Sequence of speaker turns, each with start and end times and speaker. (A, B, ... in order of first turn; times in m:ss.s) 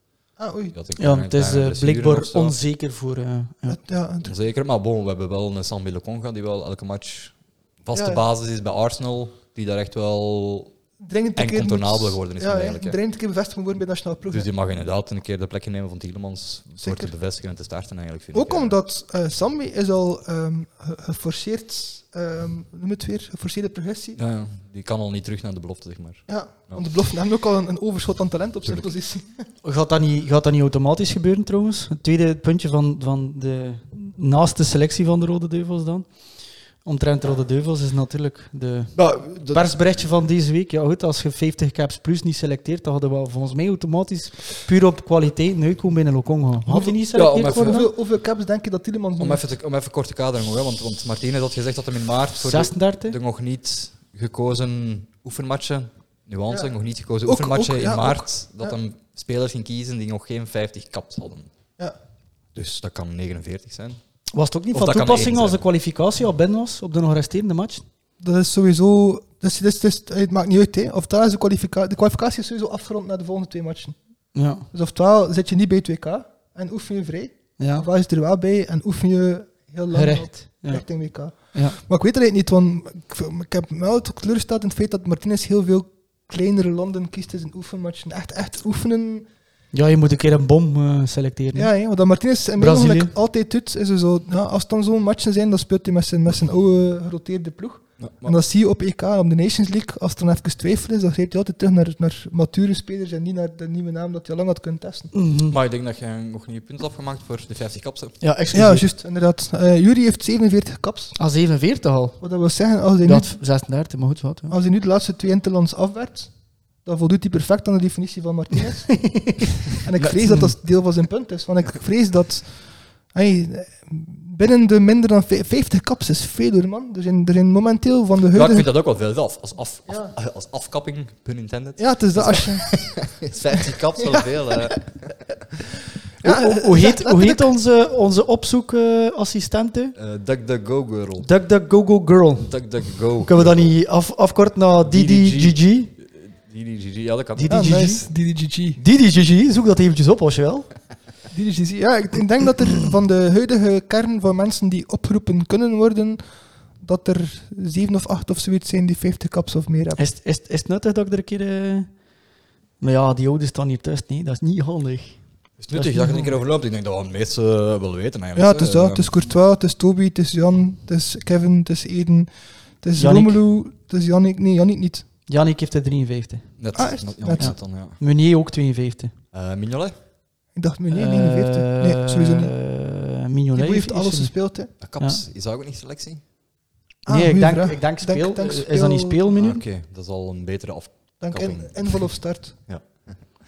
0:00.4-0:00.7 A
0:00.7-0:02.6 B
0:01.0-0:03.8 C
0:03.7-0:04.3 A
0:04.2-0:10.7 B
0:07.9-0:08.2 A
0:11.0-0:14.5 A
0:11.4-0:13.0 B
0:14.3-0:18.8 B
0:16.8-0:17.1 A
0:18.3-0:24.2 A
0:24.2-0:26.8 B
0:26.3-0:29.4 A
0:29.6-0:47.9 C
0:39.0-0:40.0 B
0:46.7-0:49.4 A
0:47.1-0:47.8 B
0:49.2-1:01.5 B
0:52.4-0:53.2 C
0:57.2-0:58.7 A
1:02.5-1:04.0 B
1:04.3-1:07.8 C
1:04.7-1:05.6 B
1:08.2-1:14.0 A
1:14.3-1:14.6 C
1:14.7-1:29.2 A
1:17.6-1:17.8 C
1:19.9-1:21.8 C
1:29.7-1:31.7 C
1:31.5-1:45.1 A
1:32.6-1:33.1 C
1:38.0-1:38.4 B
1:45.1-1:45.6 C
1:45.5-1:48.2 B
1:48.2-1:48.8 C
1:48.5-1:51.2 A
1:51.2-1:52.4 C
1:52.2-1:53.3 A
1:53.0-1:54.5 C
1:54.5-1:56.3 A
1:56.8-1:59.2 A
1:59.1-1:59.4 C
1:59.8-2:08.7 A
2:08.3-2:15.2 B
2:09.9-2:10.1 A
2:11.8-2:12.9 A
2:16.2-2:17.5 A
2:16.2-2:20.0 C
2:20.0-2:21.3 B
2:21.2-2:25.9 C
2:22.4-2:23.7 B
2:24.8-2:27.7 B
2:27.4-2:28.1 C
2:27.5-2:28.8 A
2:28.8-2:30.7 C
2:31.3-2:36.2 A
2:36.8-2:40.0 A
2:40.0-2:41.9 C
2:42.8-2:45.2 C
2:45.6-2:49.1 B
2:45.7-2:46.3 C
2:48.3-2:55.0 A
2:53.0-2:53.4 C
2:55.3-2:56.7 C
2:56.6-2:58.0 B
2:56.7-2:57.5 A
2:57.4-2:59.1 C
2:59.3-2:59.9 B
3:00.5-3:02.5 A
3:00.9-3:04.4 C
3:03.5-3:04.7 A
3:04.8-3:06.2 B
3:07.0-3:09.2 A
3:07.1-3:09.6 C
3:09.3-3:12.1 B
3:11.2-3:12.5 A
3:12.6-3:13.2 B